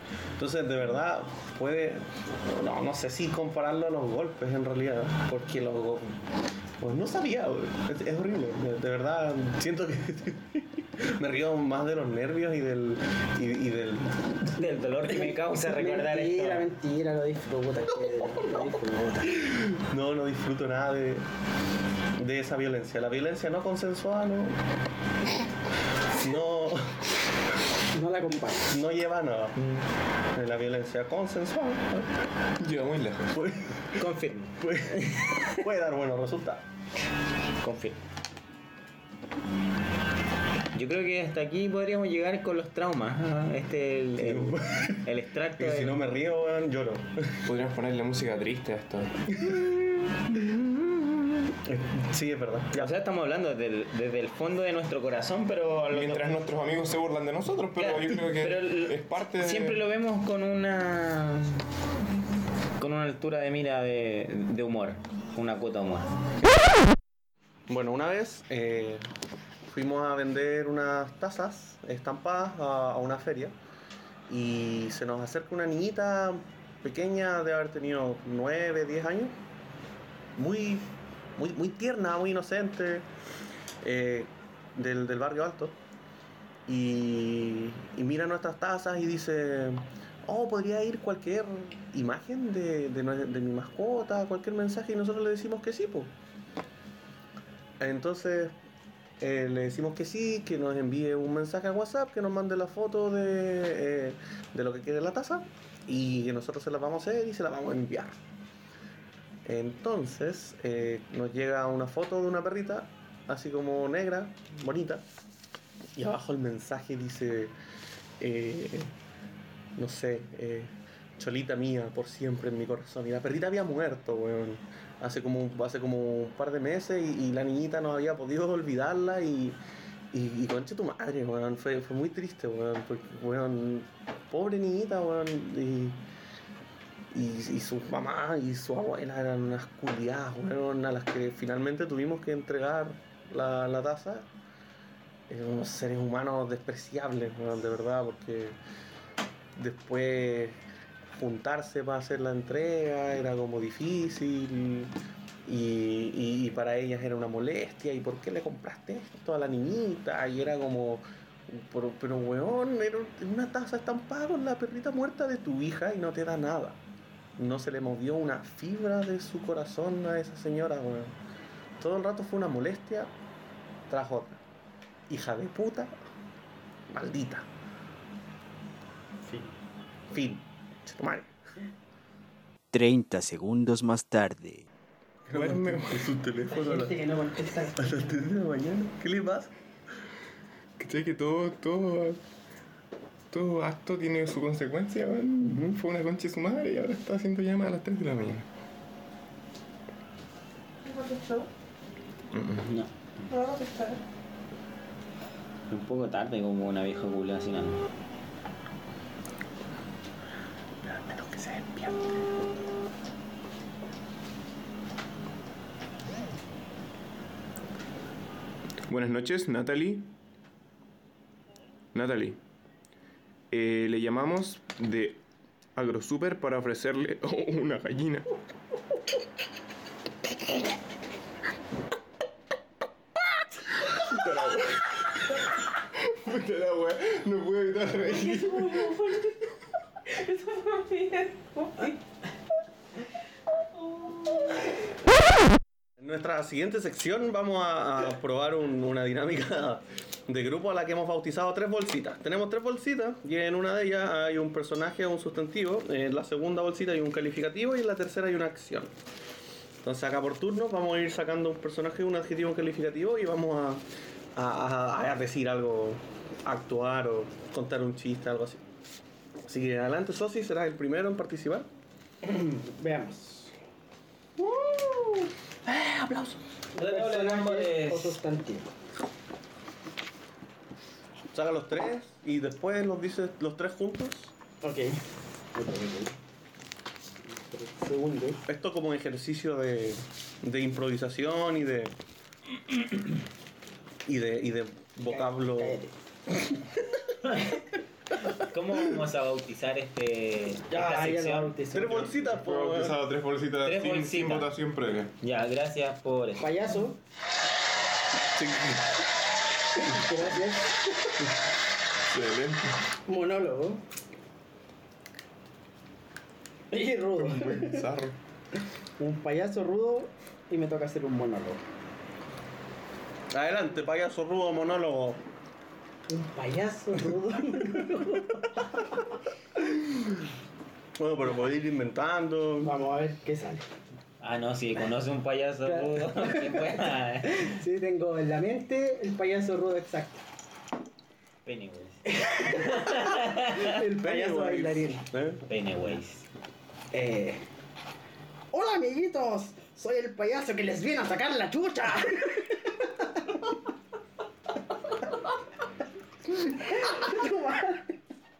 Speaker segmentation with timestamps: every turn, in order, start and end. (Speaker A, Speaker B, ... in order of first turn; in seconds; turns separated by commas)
Speaker A: 0.4-6.2, Speaker A: 6.8-14.4, Speaker B: 14.5-16.7, Speaker C: 15.2-19.4, Speaker A: 19.4-21.3, Speaker A: 22.2-24.6, Speaker A: 26.1-27.1, Speaker C: 27.9-28.7, Speaker A: 28.7-29.8, Speaker A: 30.3-32.1, Speaker D: 32.6-33.4, Speaker A: 33.3-34.0, Speaker B: 34.0-35.6, Speaker A: 34.6-36.6, Speaker B: 37.6-38.0, Speaker B: 40.7-46.0, Speaker A: 44.2-47.4, Speaker D: 47.5-49.5, Speaker A: 51.6-52.9, Speaker B: 52.8-56.4, Speaker D: 55.9-59.8, Speaker B: 57.8-61.7, Speaker B: 62.8-66.1, Speaker A: 67.7-69.1, Speaker A: 69.7-73.6, Speaker A: 74.3-79.4, Speaker A: 80.4-83.1, Speaker A: 83.8-85.8, Speaker A: 86.7-96.1, Speaker A: 97.8-98.6, Speaker A: 99.2-108.2, Speaker A: 109.5-115.1, Speaker A: 116.0-117.5, Speaker A: 118.2-118.9, Speaker A: 119.8-129.6, Speaker A: 130.1-136.0, Speaker A: 137.1-144.3, Speaker A: 145.3-148.6, Speaker A: 149.6-150.6, Speaker A: 151.1-166.8, Speaker A: 167.4-171.2, Speaker A: 171.8-173.1, Speaker A: 173.9-174.4, Speaker A: 175.1-175.9, Speaker A: 176.9-177.5, Speaker A: 180.1-181.3, Speaker E: 182.7-184.7, Speaker A: 185.3-187.1, Speaker D: 185.3-186.1, Speaker C: 186.5-188.2, Speaker A: 187.8-189.5, Speaker D: 190.8-192.2, Speaker D: 193.3-198.5, Speaker A: 195.4-195.8, Speaker F: 200.8-201.5, Speaker D: 202.3-202.6, Speaker B: 202.6-202.9, Speaker F: 203.3-204.0, Speaker B: 205.7-207.9, Speaker D: 218.9-220.2, Speaker D: 221.9-222.4, Speaker D: 223.5-225.2, Speaker D: 225.8-228.3, Speaker D: 233.9-235.4, Speaker D: 236.0-239.0, Speaker F: 238.0-242.0, Speaker F: 243.8-244.7, Speaker A: 246.0-259.0, Speaker A: 259.8-268.6, Speaker A: 269.5-271.7, Speaker C: 272.2-273.6, Speaker A: 274.5-274.8, Speaker A: 275.7-276.4, Speaker C: 276.8-278.7, Speaker B: 276.8-278.2, Speaker A: 281.3-284.3, Speaker C: 284.6-285.0, Speaker C: 285.5-286.1, Speaker C: 287.3-288.4, Speaker A: 288.5-292.0, Speaker A: 294.1-295.8, Speaker C: 295.1-295.9, Speaker B: 298.3-301.6, Speaker C: 300.7-302.3, Speaker A: 301.7-303.0, Speaker D: 302.4-305.1, Speaker B: 303.6-304.5, Speaker B: 305.2-306.5, Speaker C: 306.4-307.0, Speaker A: 308.3-308.9, Speaker C: 309.8-311.2, Speaker D: 312.1-312.8, Speaker C: 313.1-313.8, Speaker C: 316.7-317.9, Speaker D: 317.2-318.2, Speaker C: 319.0-321.6, Speaker A: 323.3-325.2, Speaker C: 326.1-329.0, Speaker A: 331.0-332.8, Speaker C: 332.6-333.6, Speaker B: 334.2-337.6, Speaker C: 335.7-336.7, Speaker C: 337.2-340.2, Speaker B: 341.4-343.7, Speaker C: 342.1-345.0, Speaker A: 343.9-345.4, Speaker B: 345.5-346.3, Speaker C: 346.9-347.4, Speaker C: 348.5-352.8, Speaker C: 356.4-358.0